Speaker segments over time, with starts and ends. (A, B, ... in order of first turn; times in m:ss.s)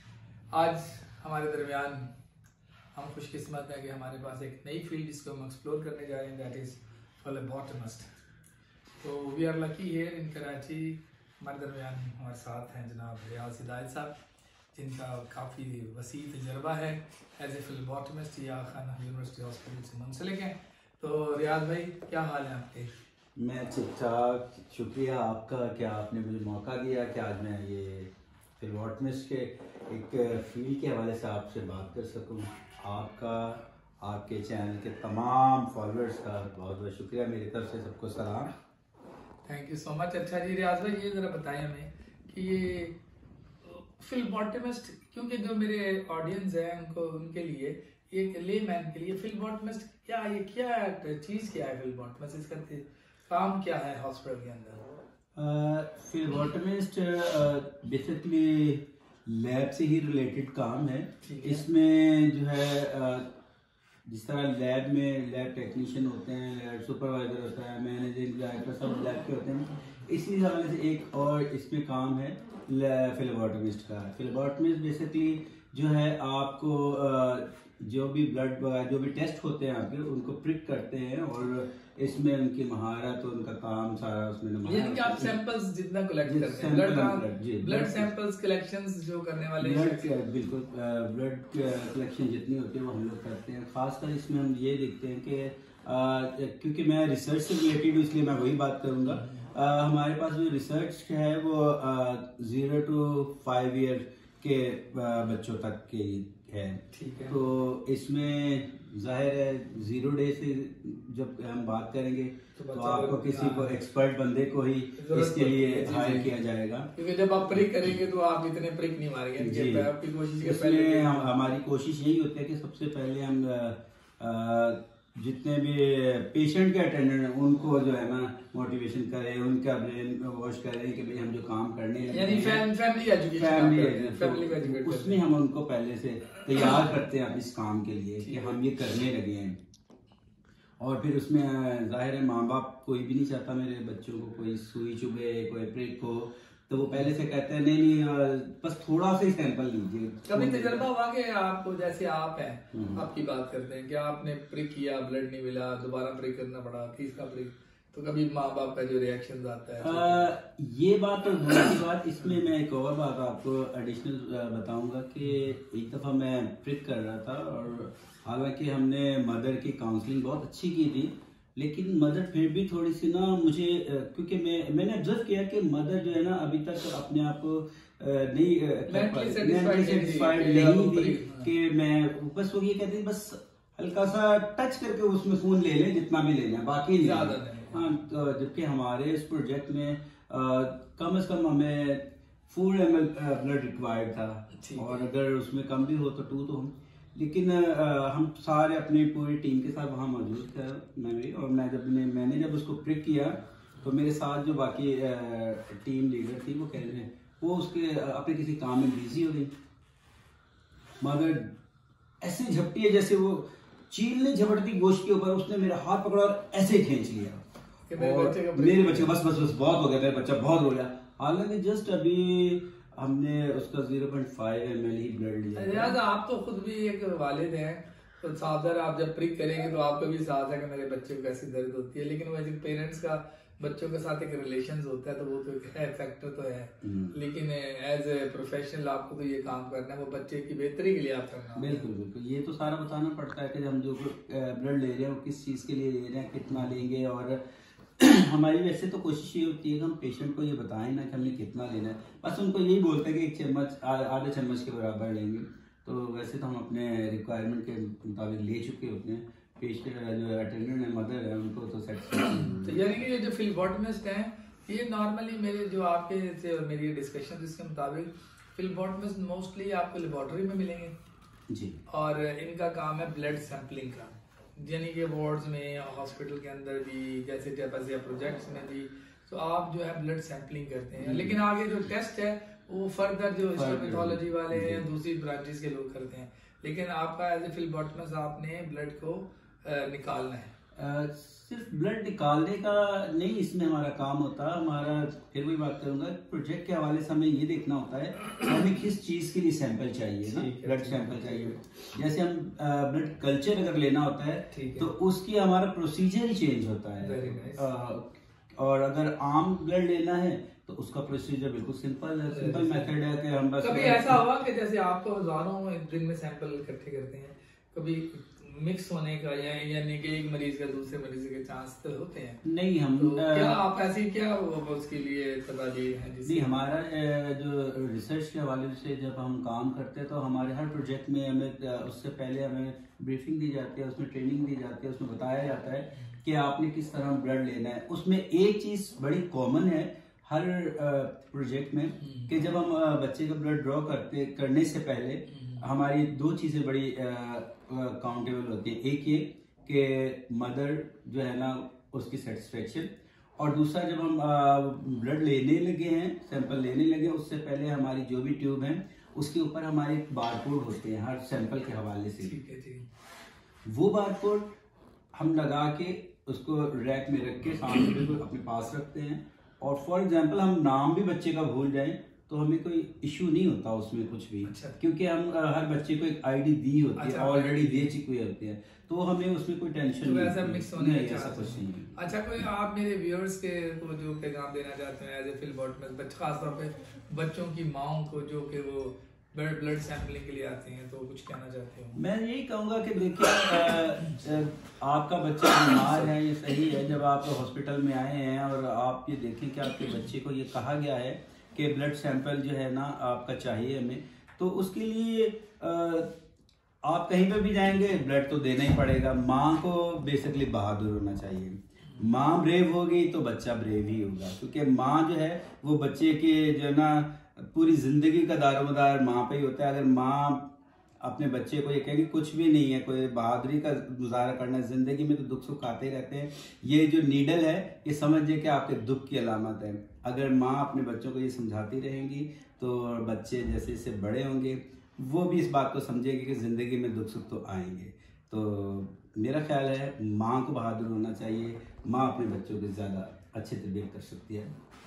0:00.5-0:02.1 A
0:03.0-0:08.1 A
0:09.0-0:14.2 A
0:14.7-0:22.9 A
0:23.4-0:38.5 B
0:39.4-0:43.0 A
0:43.6-0:54.8 A
0:55.4-1:03.2 B
1:01.2-1:01.6 A
1:04.1-1:25.4 B
1:24.6-1:30.1 A
1:26.2-1:28.1 B
1:29.6-1:56.9 B
1:39.1-1:39.5 A
1:46.9-1:47.4 A
1:52.6-1:53.7 A
1:55.0-1:56.4 A
1:57.0-2:01.3 A
1:59.4-2:12.7 B
2:12.1-2:15.2 A
2:13.3-2:19.6 B
2:18.2-2:18.6 A
2:20.8-2:30.8 B
2:26.8-2:27.1 A
2:30.3-2:40.3 A
2:32.7-2:33.0 B
2:39.8-3:29.5 B
2:58.9-3:01.5 A
3:07.0-3:07.9 A
3:14.6-3:15.0 A
3:31.0-3:31.5 B
3:32.2-3:37.4 B
3:37.9-3:39.1 A
3:38.0-3:46.0 B
3:45.6-4:01.9 A
3:56.8-3:57.2 B
4:01.6-4:07.4 B
4:08.0-4:22.8 B
4:22.3-4:30.9 A
4:31.5-4:31.8 B
4:31.9-4:50.5 A
4:41.0-4:41.4 B
4:43.6-4:44.8 B
4:50.8-5:14.2 B
5:00.2-5:01.6 A
5:04.5-5:04.9 A
5:07.0-5:07.7 A
5:12.3-5:12.9 A
5:13.6-5:22.4 A
5:22.4-5:23.6 B
5:23.0-5:26.5 A
5:26.2-6:02.4 B
5:42.0-5:42.3 A
5:45.3-5:45.6 A
6:02.2-6:02.9 A
6:03.7-6:04.5 B
6:05.2-6:22.1 B
6:14.4-6:14.8 A
6:17.0-6:17.9 A
6:20.0-6:32.0 A
6:32.0-6:46.1 B
6:46.8-7:00.5 B
7:01.0-7:24.5 B